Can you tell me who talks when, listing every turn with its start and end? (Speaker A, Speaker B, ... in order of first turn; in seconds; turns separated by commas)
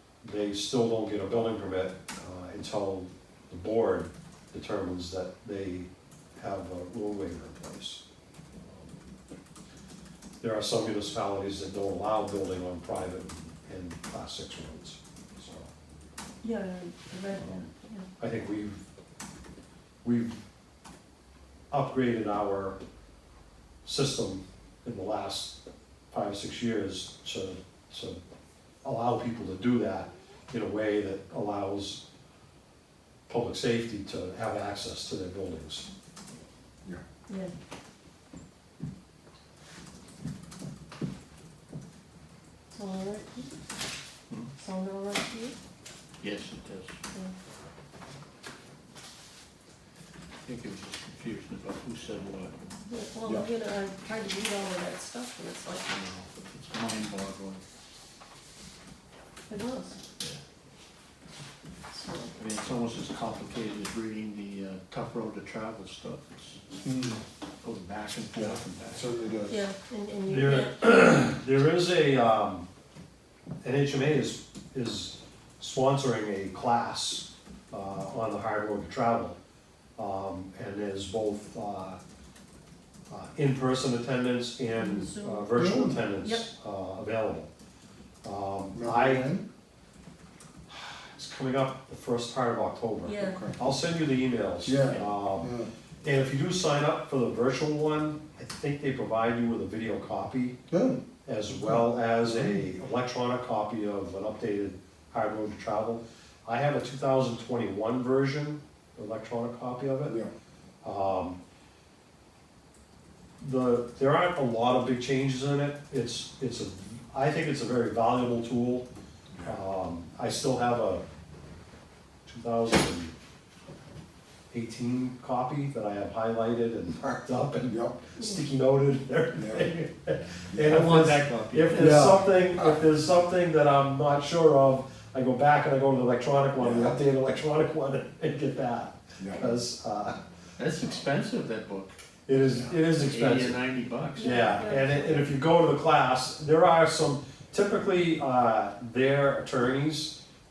Speaker A: 0.2-5.9, Speaker A: 6.4-8.0, Speaker A: 8.6-8.9, Speaker A: 10.4-15.7, Speaker B: 16.4-18.1, Speaker A: 18.2-18.8, Speaker A: 20.0-20.4, Speaker A: 21.7-22.8, Speaker A: 23.8-25.6, Speaker A: 26.1-28.2, Speaker A: 28.8-32.0, Speaker A: 33.3-35.9, Speaker B: 37.3-37.5, Speaker B: 42.7-43.5, Speaker B: 44.6-45.5, Speaker C: 46.2-47.0, Speaker C: 50.4-52.5, Speaker B: 52.9-55.9, Speaker C: 55.9-57.6, Speaker B: 59.5-60.0, Speaker B: 61.9-62.3, Speaker C: 62.4-66.6, Speaker D: 66.8-67.2, Speaker C: 67.6-69.1, Speaker D: 68.3-69.6, Speaker B: 69.5-70.9, Speaker A: 70.3-72.7, Speaker A: 73.6-79.4, Speaker A: 80.0-82.0, Speaker A: 83.1-87.5, Speaker B: 84.7-85.5, Speaker D: 85.5-86.0, Speaker A: 88.2-89.3, Speaker D: 88.7-89.5, Speaker A: 90.7-100.6, Speaker B: 93.0-93.4, Speaker D: 93.2-93.7, Speaker D: 94.6-95.7, Speaker D: 100.7-101.0, Speaker A: 101.2-110.2, Speaker D: 101.6-102.6, Speaker D: 110.0-110.3, Speaker A: 110.8-111.4, Speaker A: 113.4-118.8, Speaker A: 119.4-121.0, Speaker A: 122.2-123.1, Speaker A: 124.5-140.2, Speaker D: 127.6-128.0, Speaker D: 129.3-129.7, Speaker D: 130.5-130.8, Speaker C: 130.7-132.2, Speaker D: 131.7-132.8, Speaker D: 136.6-137.0, Speaker D: 139.2-139.5, Speaker C: 140.6-142.0, Speaker A: 142.2-143.6, Speaker D: 142.5-142.8, Speaker C: 142.9-144.3, Speaker B: 144.2-145.3, Speaker A: 144.2-150.2